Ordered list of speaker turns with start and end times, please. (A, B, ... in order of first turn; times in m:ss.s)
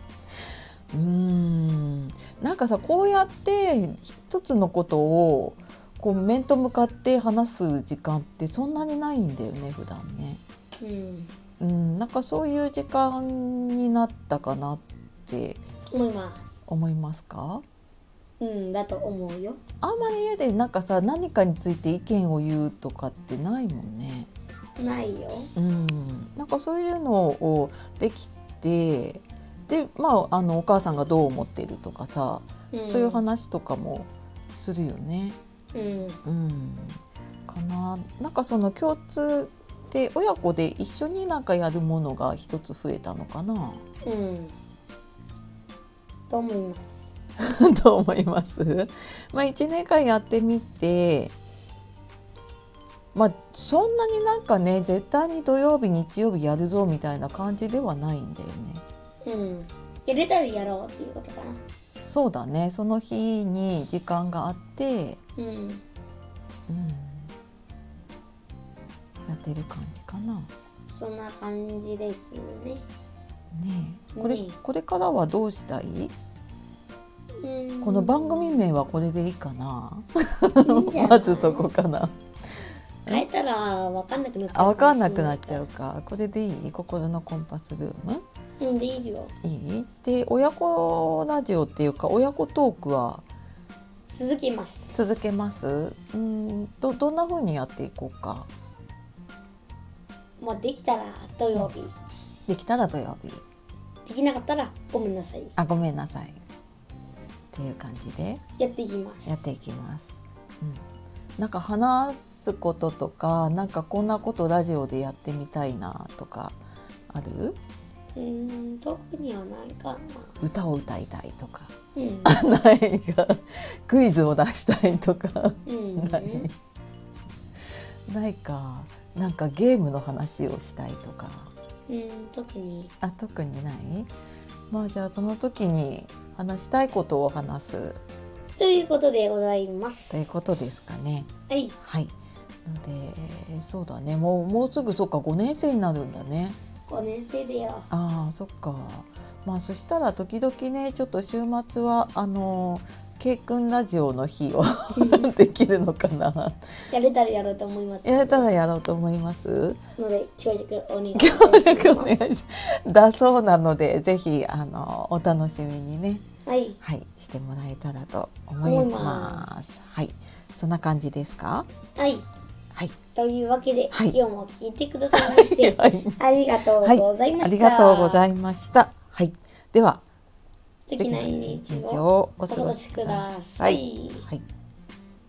0:00.9-0:10.4 A
0:10.8-0:11.3 B
0:11.6-0:15.6 A
0:15.9-0:16.5 B
0:16.7-0:17.6 A
0:18.4-0:19.6 B
0:19.8-0:24.3 A
0:24.8-0:25.5 B
0:25.5-0:35.4 A
0:32.7-0:33.2 B
0:35.7-0:36.2 B
0:36.2-0:43.8 A
0:44.0-0:44.5 B
0:46.3-0:47.1 B
0:47.4-0:51.3 A
0:53.1-0:58.8 A
0:59.2-1:01.6 B
1:02.0-1:05.2 A
1:05.4-1:05.8 B
1:06.7-1:07.3 A
1:09.3-1:10.5 A
1:10.9-1:12.8 B
1:13.5-1:16.1 A
1:14.1-1:14.6 B
1:17.4-1:18.7 B
1:17.8-1:23.2 A
1:20.6-1:21.7 B
1:23.1-1:25.6 B
1:24.5-1:28.2 A
1:28.6-1:29.3 B
1:29.4-1:33.2 A
1:34.1-1:34.9 B
1:34.9-1:38.5 A
1:40.4-1:41.9 B
1:42.5-1:43.4 A
1:44.0-1:45.5 B
1:45.6-1:46.4 A
1:47.5-1:48.4 A
1:48.6-1:49.4 B
1:49.2-1:50.8 A
1:51.4-1:56.6 A
1:57.1-1:57.6 A
1:58.1-2:00.4 B
2:00.4-2:01.7 A
2:01.9-2:02.4 B
2:02.2-2:06.5 A
2:05.6-2:06.5 B
2:07.6-2:11.5 A
2:11.9-2:12.9 B
2:13.0-2:14.1 A
2:14.7-2:18.0 A
2:18.6-2:20.4 B
2:20.1-2:22.1 A
2:21.5-2:21.7 B
2:22.6-2:26.6 A
2:26.9-2:27.9 B
2:27.9-2:36.7 A
2:34.9-2:35.3 B
2:36.9-2:38.5 B
2:38.0-2:39.8 A
2:40.0-2:42.3 B
2:41.1-2:46.2 A
2:46.4-2:46.8 B
2:46.8-2:51.7 A
2:48.6-2:49.6 B
2:52.0-2:52.2 B
2:53.1-2:58.3 B
2:53.9-2:54.2 A
2:55.1-2:56.2 A
2:56.8-3:00.0 A
3:00.9-3:04.3 B
3:01.0-3:04.4 A